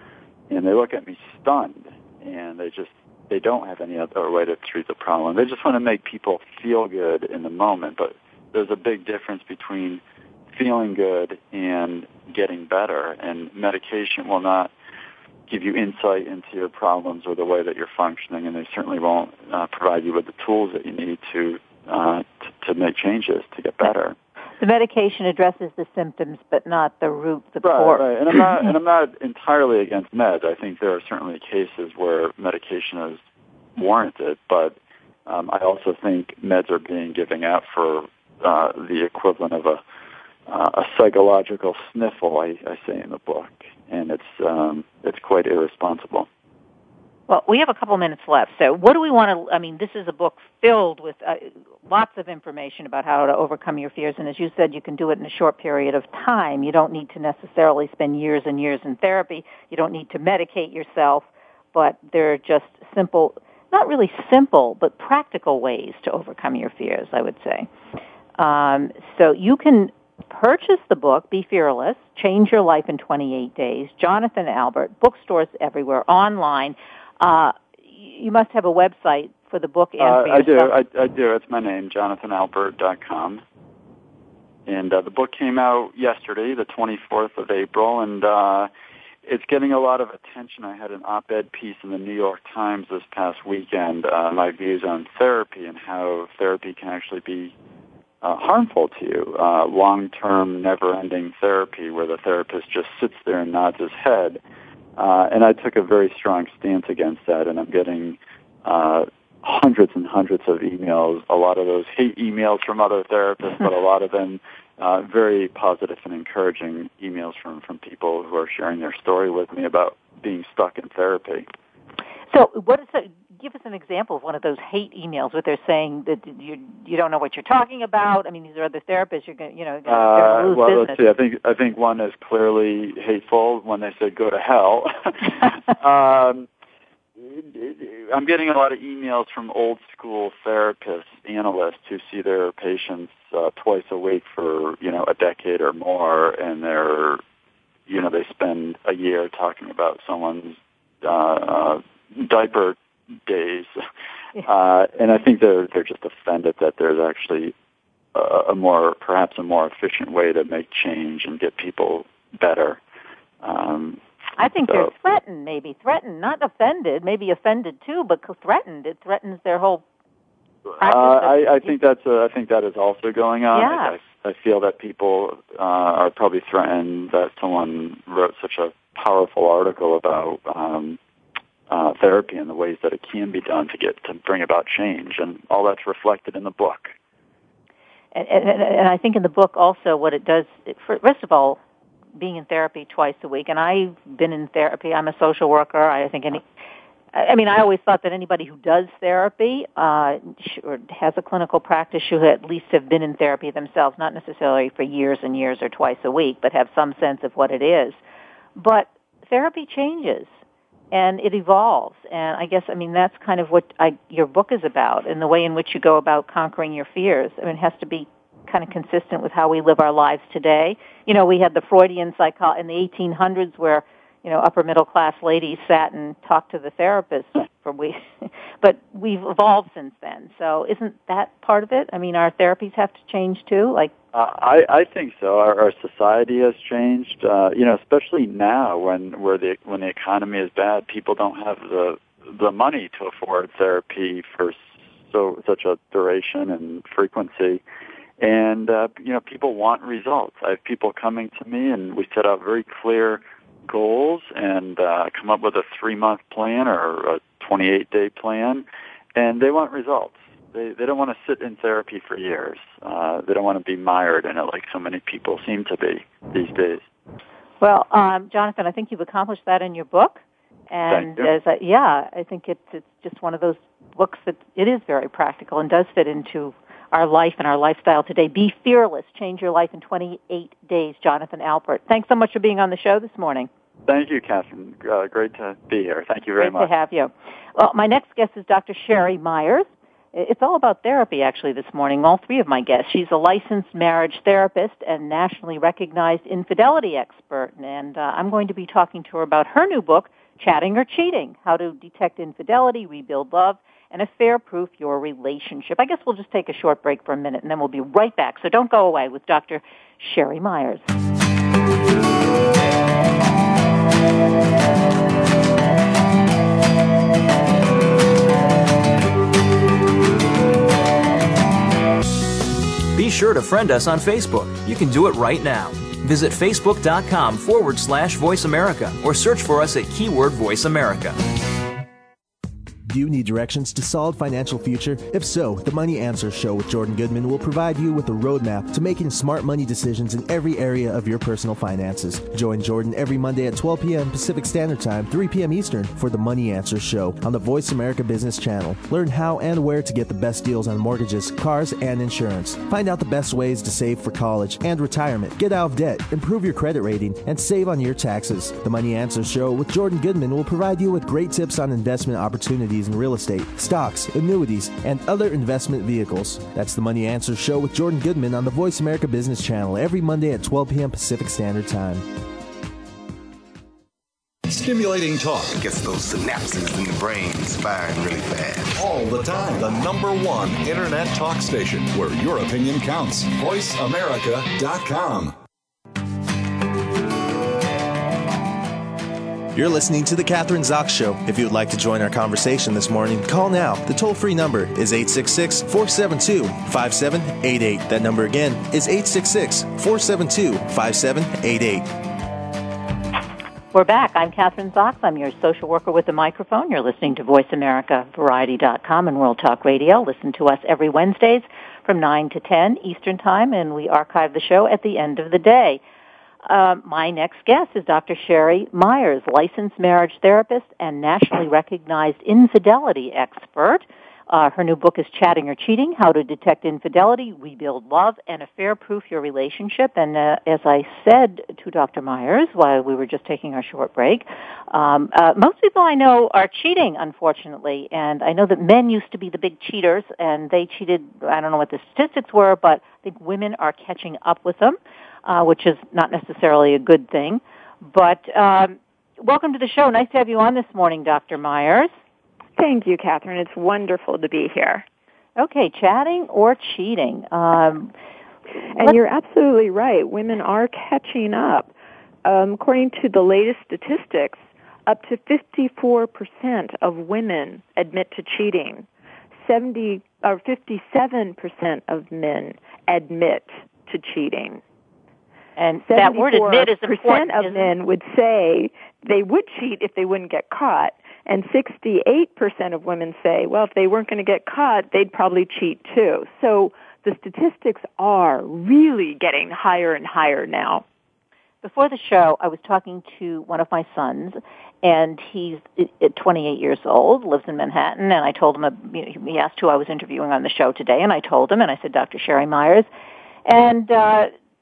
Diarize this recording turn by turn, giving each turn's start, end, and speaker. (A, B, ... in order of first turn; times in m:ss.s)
0:00.5-0:14.7 A
0:15.5-0:24.2 A
0:24.6-0:28.4 B
0:27.6-0:33.2 A
0:33.8-0:39.8 A
0:40.5-0:46.3 A
0:47.3-1:07.7 B
1:08.4-1:20.7 B
1:20.0-1:23.4 A
1:24.7-1:28.7 A
1:29.3-1:37.5 A
1:38.2-1:44.4 A
1:45.0-2:01.5 A
2:02.3-2:11.0 B
2:09.9-2:16.5 A
2:17.2-2:27.2 A
2:27.9-2:33.8 A
2:34.4-2:37.5 A
2:38.1-2:42.8 A
2:43.4-2:44.0 A
2:44.4-2:49.8 B
2:50.7-3:01.0 A
2:50.8-2:51.7 B
2:53.5-2:54.0 B
3:01.7-3:07.0 A
3:08.1-3:11.6 B
3:12.2-3:16.4 B
3:17.1-3:28.0 B
3:28.6-3:30.3 B
3:30.9-3:53.9 B
3:54.1-4:07.6 A
4:08.2-4:26.8 A
4:27.6-4:43.5 B
4:30.9-4:31.3 A
4:43.9-4:46.7 A
4:46.4-5:10.9 B
5:23.0-5:31.2 C
5:32.9-6:12.0 D
6:14.5-6:15.6 E
6:15.6-6:18.7 F
6:18.7-6:25.4 E
6:29.5-6:41.9 D
6:43.7-6:55.8 B
6:56.5-7:31.9 B
7:32.6-7:34.8 G
7:35.4-7:37.9 B
7:38.7-7:41.7 G
7:42.2-7:48.9 G
7:49.4-7:54.6 G
7:55.6-7:57.7 B
7:55.8-8:10.8 G
8:11.6-8:22.9 B
8:23.4-8:24.3 B